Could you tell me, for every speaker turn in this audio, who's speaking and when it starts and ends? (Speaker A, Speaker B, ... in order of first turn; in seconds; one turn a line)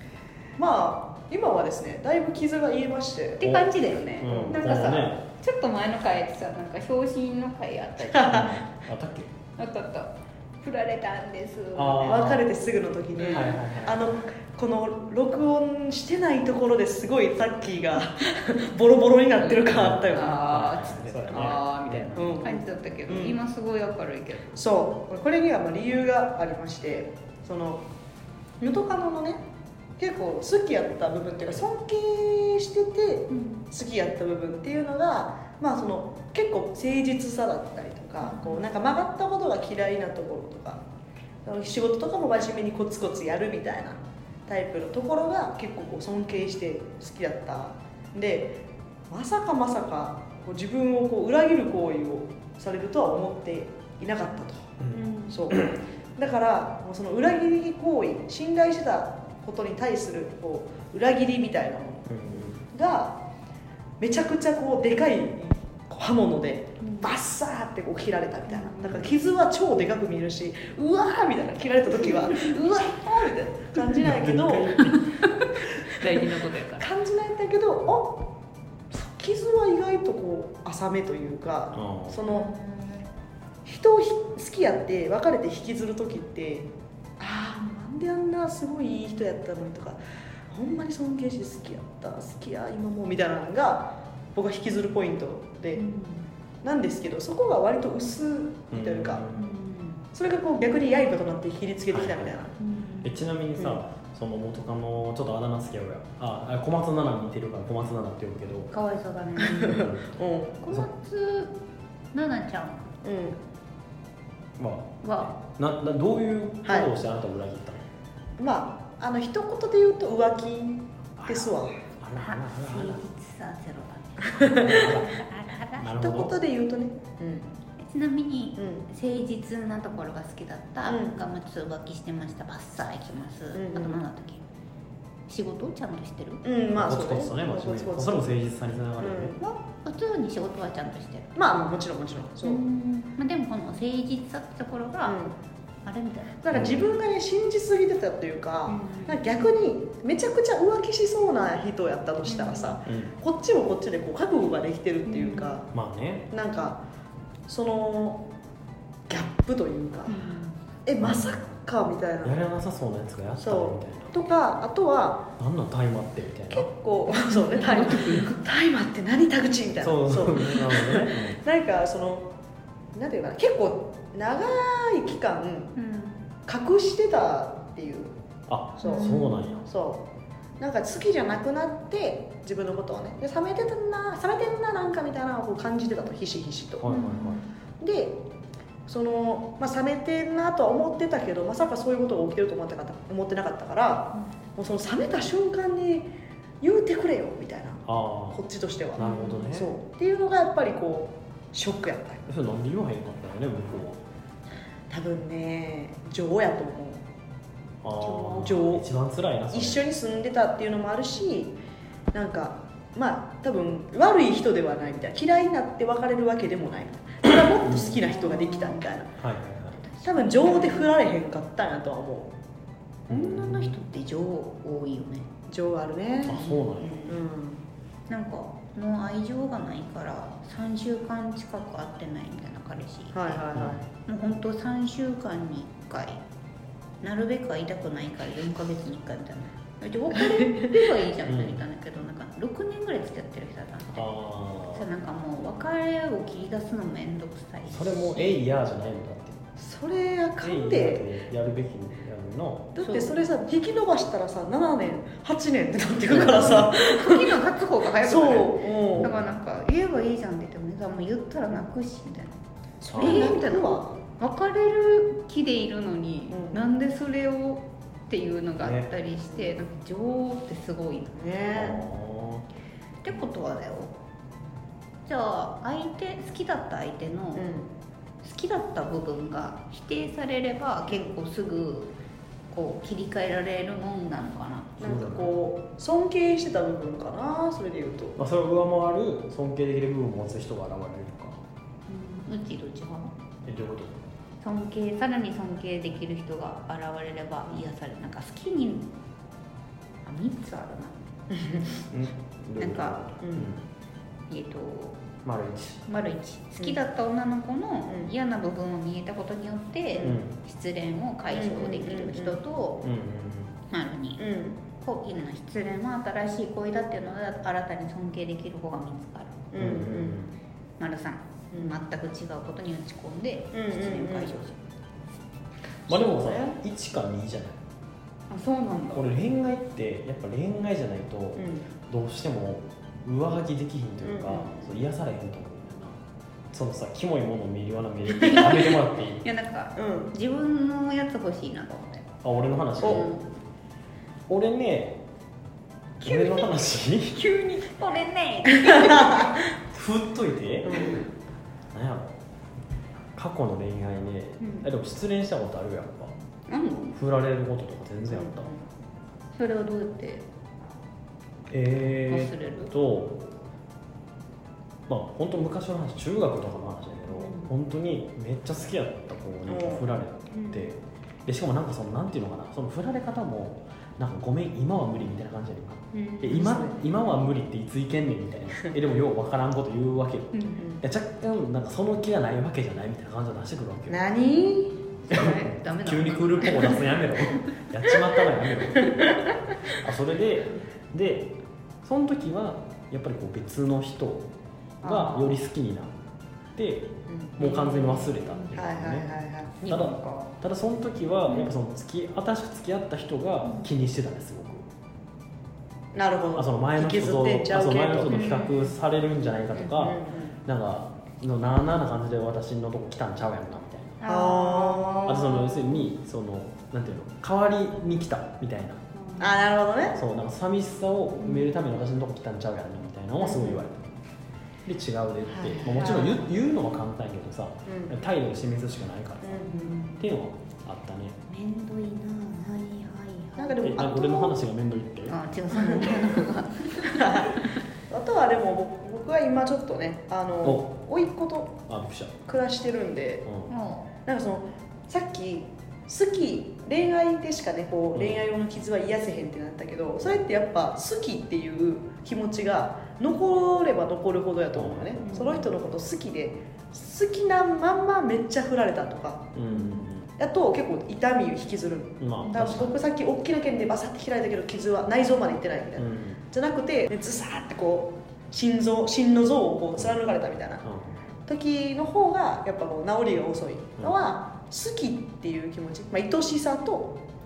Speaker A: 0.6-3.4
Speaker B: 3.4-8.5
Speaker C: 3.4-5.2
Speaker A: 4.3-4.6
Speaker A: 8.1-8.5
Speaker C: 8.3-9.3
Speaker B: 9.6-12.3
Speaker C: 11.7-12.4
Speaker A: 12.0-20.4
Speaker B: 13.2-13.6
Speaker C: 13.3-14.1
Speaker C: 19.7-22.3
Speaker B: 20.1-24.6
Speaker A: 22.1-23.4
Speaker A: 24.6-27.8
Speaker A: 28.6-29.4
Speaker A: 30.0-40.8
Speaker B: 33.3-33.6
Speaker B: 38.2-38.6
Speaker A: 41.4-54.8
Speaker C: 54.8-55.8
Speaker B: 54.9-55.4
Speaker A: 55.3-63.2
Speaker C: 62.1-62.6
Speaker A: 64.0-74.8
Speaker B: 66.8-67.1
Speaker B: 68.5-69.0
Speaker B: 72.1-74.0
Speaker C: 74.0-75.1
Speaker B: 74.8-76.9
Speaker A: 76.0-78.2
Speaker A: 78.9-82.5
Speaker C: 81.7-82.2
Speaker B: 82.3-83.1
Speaker A: 83.7-95.8
Speaker B: 95.8-96.3
Speaker A: 96.6-99.2
Speaker C: 98.7-99.5
Speaker B: 99.4-100.0
Speaker A: 100.1-102.5
Speaker C: 101.9-102.3
Speaker B: 102.6-103.2
Speaker C: 103.0-108.7
Speaker B: 108.7-109.9
Speaker A: 109.4-110.6
Speaker C: 109.7-110.1
Speaker B: 110.6-111.5
Speaker B: 112.1-112.9
Speaker A: 113.0-113.4
Speaker C: 114.6-117.8
Speaker B: 115.0-115.3
Speaker A: 116.7-116.9
Speaker A: 118.4-121.8
Speaker C: 121.2-123.0
Speaker B: 122.2-126.1
Speaker A: 124.2-125.0
Speaker C: 124.5-125.2
Speaker C: 125.8-126.3
Speaker A: 126.0-127.5
Speaker B: 127.8-134.4
Speaker A: 128.6-128.9
Speaker A: 130.8-131.2
Speaker A: 133.5-134.0
Speaker B: 135.3-136.5
Speaker A: 136.4-138.3
Speaker C: 136.7-139.4
Speaker A: 139.0-139.4
Speaker B: 139.4-141.6
Speaker A: 141.3-142.6
Speaker B: 142.4-145.3
Speaker A: 145.1-145.3
Speaker B: 145.8-146.5
Speaker A: 146.4-155.7
Speaker C: 146.5-146.9
Speaker B: 148.7-149.2
Speaker B: 152.3-152.8
Speaker C: 152.8-153.1
Speaker B: 155.1-155.6
Speaker C: 155.7-156.3
Speaker A: 156.3-156.8
Speaker A: 157.5-158.2
Speaker A: 159.1-160.2
Speaker B: 160.1-160.6
Speaker A: 160.8-162.4
Speaker C: 161.0-161.5
Speaker C: 162.2-164.2
Speaker A: 163.4-165.2
Speaker C: 165.4-166.7
Speaker A: 166.5-172.3
Speaker B: 167.1-168.4
Speaker C: 169.8-171.4
Speaker A: 172.9-175.7
Speaker B: 175.8-176.2
Speaker A: 176.5-178.1
Speaker C: 178.5-179.6
Speaker A: 178.8-180.1
Speaker B: 178.8-179.6
Speaker A: 180.6-186.8
Speaker C: 186.8-187.4
Speaker B: 186.9-187.5
Speaker A: 187.8-188.2
Speaker A: 188.9-202.2
Speaker C: 197.9-198.4
Speaker C: 199.0-199.7
Speaker B: 199.0-199.7
Speaker C: 202.3-204.0
Speaker A: 204.9-207.1
Speaker C: 207.8-209.8
Speaker B: 208.0-208.7
Speaker A: 208.4-208.9
Speaker A: 209.5-211.6
Speaker A: 212.1-219.1
Speaker C: 217.2-218.1
Speaker B: 218.1-218.9
Speaker C: 219.2-219.8
Speaker B: 219.8-220.9
Speaker A: 220.1-222.3
Speaker C: 223.1-223.8
Speaker B: 223.1-225.3
Speaker A: 225.5-227.6
Speaker C: 226.3-227.1
Speaker B: 226.8-227.1
Speaker B: 228.1-233.5
Speaker A: 233.1-233.8
Speaker C: 233.5-233.8
Speaker B: 234.1-236.2
Speaker B: 237.0-244.1
Speaker A: 240.1-240.8
Speaker C: 241.2-241.6
Speaker C: 243.9-244.9
Speaker B: 244.7-248.4
Speaker C: 247.7-249.4
Speaker A: 249.6-251.1
Speaker C: 250.4-252.7
Speaker A: 252.8-257.4
Speaker B: 252.8-253.2
Speaker C: 256.1-256.7
Speaker B: 256.4-262.4
Speaker A: 258.0-259.1
Speaker A: 262.8-263.9
Speaker C: 262.9-263.4
Speaker B: 263.0-271.2
Speaker A: 266.3-266.6
Speaker C: 268.6-268.9
Speaker A: 269.2-269.6
Speaker A: 271.1-271.8
Speaker C: 271.6-272.4
Speaker B: 273.0-273.9
Speaker B: 275.1-277.5
Speaker A: 277.4-277.7
Speaker B: 278.2-281.9
Speaker A: 280.9-281.1
Speaker B: 282.5-284.8
Speaker A: 284.8-288.2
Speaker C: 284.8-285.3
Speaker C: 288.2-291.4
Speaker B: 291.9-293.1
Speaker C: 293.5-294.0
Speaker B: 294.4-298.9
Speaker B: 300.1-301.0
Speaker A: 301.3-301.7
Speaker C: 301.9-303.6
Speaker B: 302.6-303.1
Speaker A: 303.2-303.5
Speaker B: 304.3-305.0
Speaker C: 305.2-305.9
Speaker B: 305.9-312.8
Speaker C: 310.0-310.3
Speaker A: 311.3-312.4
Speaker C: 312.8-313.5
Speaker B: 313.7-319.5
Speaker A: 314.2-314.6
Speaker A: 319.5-320.2
Speaker C: 319.6-320.3
Speaker B: 320.8-324.6
Speaker A: 321.5-321.8
Speaker A: 323.5-324.4
Speaker C: 325.9-327.6
Speaker A: 326.1-326.6
Speaker B: 328.3-329.1
Speaker C: 328.9-336.0
Speaker A: 331.4-331.6
Speaker A: 334.0-334.8
Speaker C: 336.5-339.2
Speaker B: 338.2-342.1
Speaker A: 339.8-340.1
Speaker C: 342.2-343.1
Speaker B: 342.8-343.3
Speaker C: 344.3-345.0
Speaker B: 346.0-346.5
Speaker C: 346.0-347.2
Speaker B: 347.1-349.4
Speaker A: 348.5-349.4
Speaker C: 349.7-350.9
Speaker A: 350.6-351.0
Speaker B: 350.7-351.0
Speaker C: 351.7-352.2
Speaker C: 353.2-356.1
Speaker B: 354.4-354.7
Speaker B: 356.5-357.0
Speaker C: 356.9-358.5
Speaker A: 358.1-358.6
Speaker B: 359.4-360.2
Speaker C: 361.5-363.2
Speaker B: 362.1-362.7
Speaker C: 364.9-384.0
Speaker B: 367.1-367.5
Speaker A: 369.5-369.9
Speaker B: 370.3-370.7
Speaker B: 375.9-376.5
Speaker A: 376.3-376.9
Speaker B: 380.3-380.6
Speaker A: 380.6-380.8
Speaker A: 383.9-384.8
Speaker C: 385.1-389.2
Speaker B: 385.1-387.4
Speaker C: 389.7-391.3
Speaker C: 391.8-394.3
Speaker C: 394.8-395.9
Speaker B: 394.9-395.3
Speaker C: 396.6-399.1
Speaker A: 397.1-397.3
Speaker B: 397.4-398.4
Speaker A: 398.6-399.6
Speaker B: 399.6-400.3
Speaker C: 399.6-404.6
Speaker A: 405.9-408.1
Speaker C: 406.4-414.0
Speaker B: 408.1-408.8
Speaker B: 409.6-409.9
Speaker A: 409.8-410.4
Speaker B: 414.0-415.5
Speaker A: 414.0-415.5
Speaker C: 415.1-418.8
Speaker B: 418.9-419.5
Speaker A: 419.2-420.0
Speaker C: 419.9-423.8
Speaker B: 421.2-421.6
Speaker A: 423.2-423.7
Speaker C: 424.6-431.2
Speaker A: 425.3-426.3
Speaker A: 427.7-427.9
Speaker A: 429.2-429.8
Speaker B: 429.4-430.0
Speaker B: 431.3-433.7
Speaker A: 433.4-434.4
Speaker C: 433.6-435.2
Speaker B: 435.1-437.5
Speaker A: 435.5-436.2
Speaker A: 436.8-441.6
Speaker C: 440.4-440.7
Speaker C: 441.7-442.1
Speaker A: 442.3-443.3
Speaker C: 443.3-443.5
Speaker B: 443.5-443.9
Speaker A: 444.1-459.4
Speaker C: 448.0-448.2
Speaker C: 454.6-455.2
Speaker B: 455.1-455.5
Speaker C: 459.3-460.1
Speaker B: 459.6-459.8
Speaker A: 460.2-470.6
Speaker C: 462.0-462.7
Speaker C: 465.8-466.2
Speaker C: 470.6-471.0
Speaker A: 471.3-477.0